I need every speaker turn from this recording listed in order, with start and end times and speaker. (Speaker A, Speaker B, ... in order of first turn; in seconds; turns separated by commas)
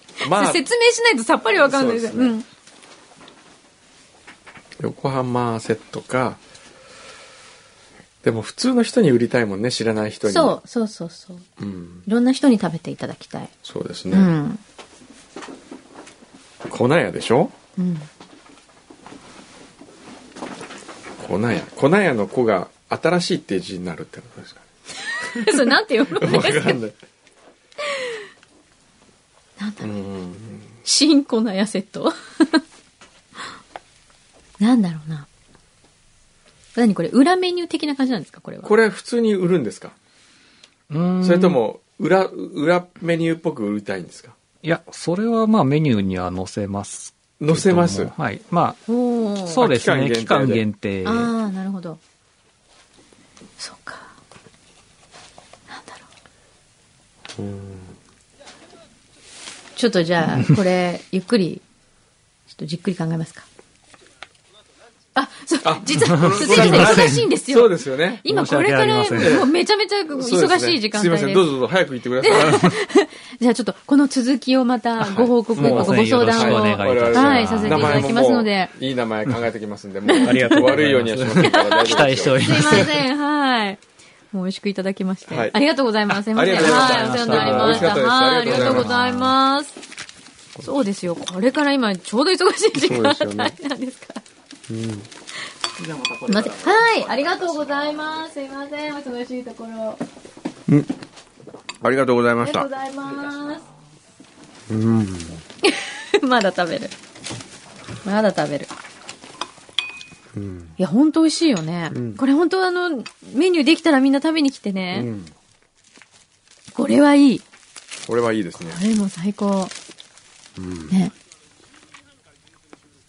Speaker A: 0.2-0.6, Speaker B: 0.2-2.5, Speaker A: 1.5-2.4, Speaker A: 4.8-6.4, Speaker A: 8.2-10.6, Speaker B: 10.2-11.4, Speaker A: 11.6-12.0, Speaker B: 12.1-13.5, Speaker A: 13.6-14.3, Speaker B: 14.1-14.6, Speaker A: 16.6-17.5, Speaker B: 17.8-18.1, Speaker A: 21.2-24.6, Speaker B: 25.1-26.8, Speaker A: 25.3-26.9, Speaker B: 29.6-29.9, Speaker A: 29.8-30.7, Speaker B: 30.8-32.6, Speaker B: 34.6-35.3, Speaker B: 36.7-38.7, Speaker A: 38.6-39.9, Speaker C: 40.9-41.6, Speaker A: 41.2-44.4, Speaker C: 44.6-48.8, Speaker A: 47.4-48.1, Speaker B: 48.9-49.6, Speaker C: 49.4-51.3, Speaker A: 49.6-50.6, Speaker B: 51.0-52.0, Speaker B: 53.6-54.1, Speaker B: 55.7-56.0, Speaker A: 57.4-57.9, Speaker B: 59.8-61.6, Speaker B: 62.5-63.5, Speaker B: 65.1-71.5, Speaker A: 65.6-68.2, Speaker C: 66.2-67.3, Speaker C: 68.3-69.4, Speaker A: 69.2-69.5, Speaker A: 70.1-72.7, Speaker B: 72.2-78.7, Speaker C: 72.5-72.7, Speaker A: 75.0-83.0, Speaker C: 75.5-78.1, Speaker B: 80.1-80.7, Speaker C: 80.2-83.0, Speaker B: 81.4-83.8, Speaker B: 84.3-89.8, Speaker A: 85.2-85.6, Speaker A: 86.3-88.9, Speaker C: 86.5-89.3, Speaker B: 90.6-94.2, Speaker A: 92.7-93.5, Speaker A: 94.7-95.1, Speaker B: 96.3-100.0, Speaker A: 100.7-100.9, Speaker A: 101.8-102.7, Speaker B: 102.4-103.6, Speaker A: 104.7-105.4, Speaker B: 105.6-106.9, Speaker B: 108.0-108.7, Speaker A: 110.3-110.7, Speaker B: 110.8-115.1, Speaker A: 111.9-112.2, Speaker A: 114.9-115.3, Speaker B: 116.7-117.4, Speaker A: 118.0-118.8, Speaker B: 118.7-119.7, Speaker A: 120.6-120.9